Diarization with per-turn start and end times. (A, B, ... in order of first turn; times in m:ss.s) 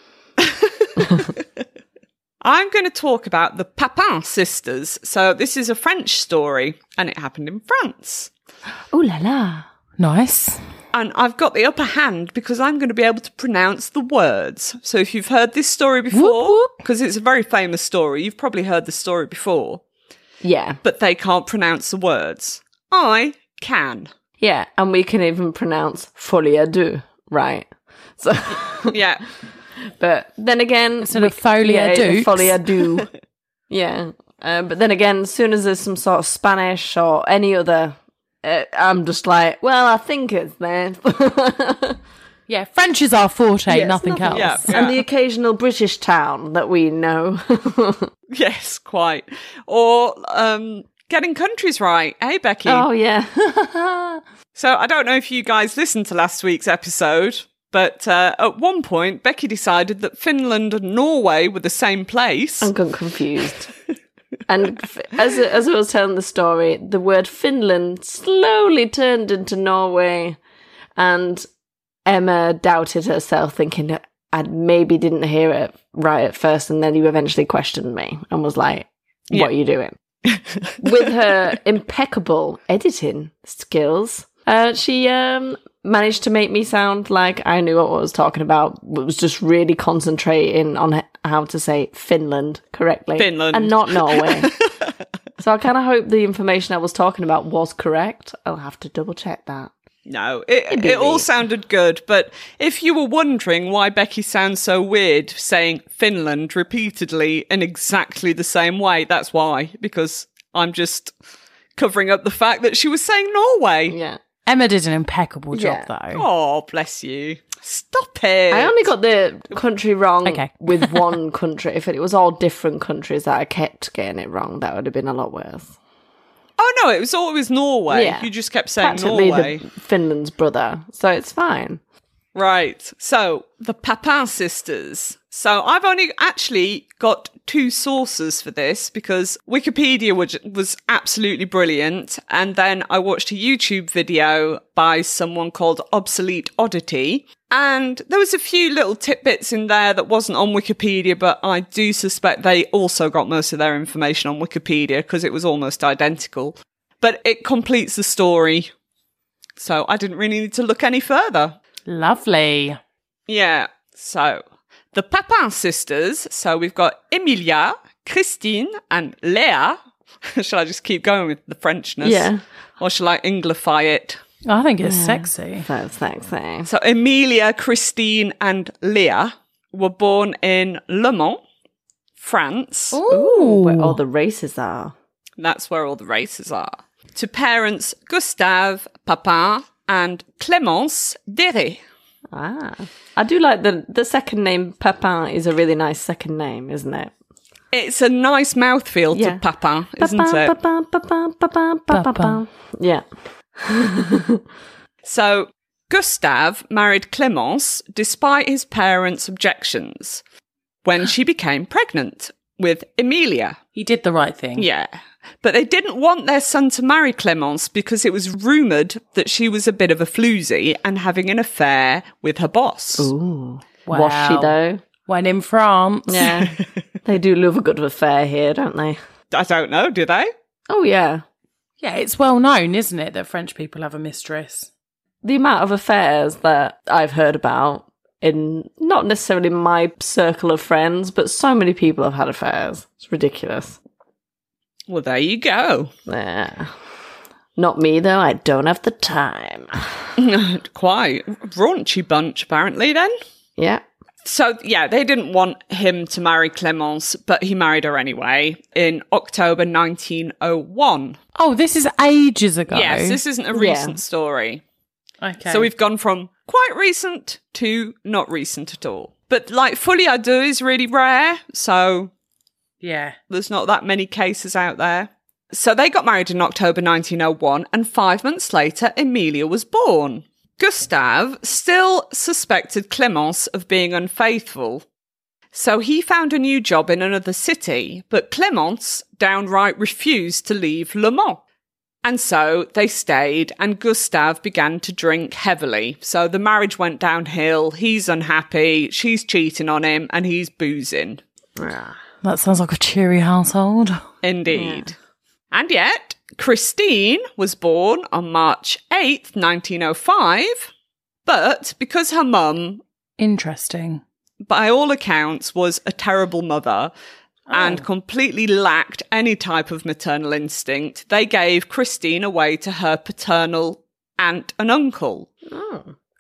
0:01.0-0:01.3 A
0:02.4-0:08.3 B
0:08.9-0:09.7 A
0:10.0-0:10.6 C
0:10.9-0:19.8 B
0:16.1-0:16.8 C
0:20.4-0:20.8 A
0:20.8-0:24.1 B
0:24.4-0:29.0 A
0:28.9-0:29.2 B
0:29.9-0:33.1 A
0:31.1-0:32.8 C
0:33.7-0:42.0 A
0:42.5-0:44.8 C
0:43.7-0:48.1 A
0:44.3-0:45.0 B
0:48.3-0:52.9 B
0:52.7-0:54.2 A
0:54.6-1:02.7 B
1:02.6-1:03.7 A
1:04.5-1:10.4 A
1:11.0-1:11.5 A
1:12.1-1:20.0 A
1:20.3-1:21.1 B
1:20.8-1:34.5 A
1:33.2-1:34.9 B
1:35.4-1:39.7 A
1:40.1-1:51.1 B
1:40.7-1:41.3 A
1:51.8-1:54.0 B
1:53.9-1:54.2 A
1:54.5-1:56.2 C
1:55.5-1:55.9 A
1:56.1-1:58.9 B
1:58.5-2:05.8 A
2:00.2-2:01.2 C
2:06.6-2:09.6 B
2:07.9-2:08.3 A
2:08.8-2:11.8 A
2:12.4-2:38.7 B
2:39.6-2:41.6 B
2:41.9-2:42.8 C
2:43.3-2:54.2 B
2:52.0-2:52.4 A
2:54.5-2:55.7 C
2:54.8-2:56.7 A
2:56.6-3:01.4 B
3:02.2-3:03.0 B
3:02.9-3:04.0 C
3:03.1-3:04.9 A
3:05.4-3:11.8 B
3:12.3-3:17.1 A
3:17.7-3:20.5 B
3:19.1-3:19.4 A
3:20.0-3:23.0 A
3:21.9-3:22.4 C
3:23.6-3:24.4 A
3:25.0-3:30.2 B
3:30.8-3:33.6 B
3:33.8-3:34.7 C
3:34.6-3:43.1 B
3:43.0-3:44.8 A
3:43.9-3:44.5 C
3:45.1-3:46.4 C
3:46.1-3:49.0 A
3:46.2-3:46.7 B
3:49.3-3:50.3 B
3:50.7-3:51.2 A
3:51.8-3:54.7 C
3:55.2-4:03.8 A
4:04.9-4:05.9 B
4:06.1-4:06.7 A
4:07.6-4:10.1 A
4:10.2-4:13.1 B
4:13.6-4:13.8 A
4:14.2-4:21.2 B
4:21.4-4:23.2 C
4:22.7-4:24.6 B
4:23.5-4:24.0 A
4:25.2-4:25.7 C
4:25.5-4:32.1 B
4:32.8-4:33.2 C
4:33.3-4:44.9 B
4:45.5-4:51.4 B
4:52.0-5:01.2 B
5:01.6-5:02.0 A
5:02.2-5:04.0 C
5:04.2-5:05.0 B
5:04.5-5:04.9 A
5:05.5-5:10.7 B
5:11.3-5:12.8 B
5:13.2-5:14.0 C
5:14.4-5:16.9 B
5:17.5-5:17.8 C
5:17.5-5:25.3 B
5:25.5-5:25.9 A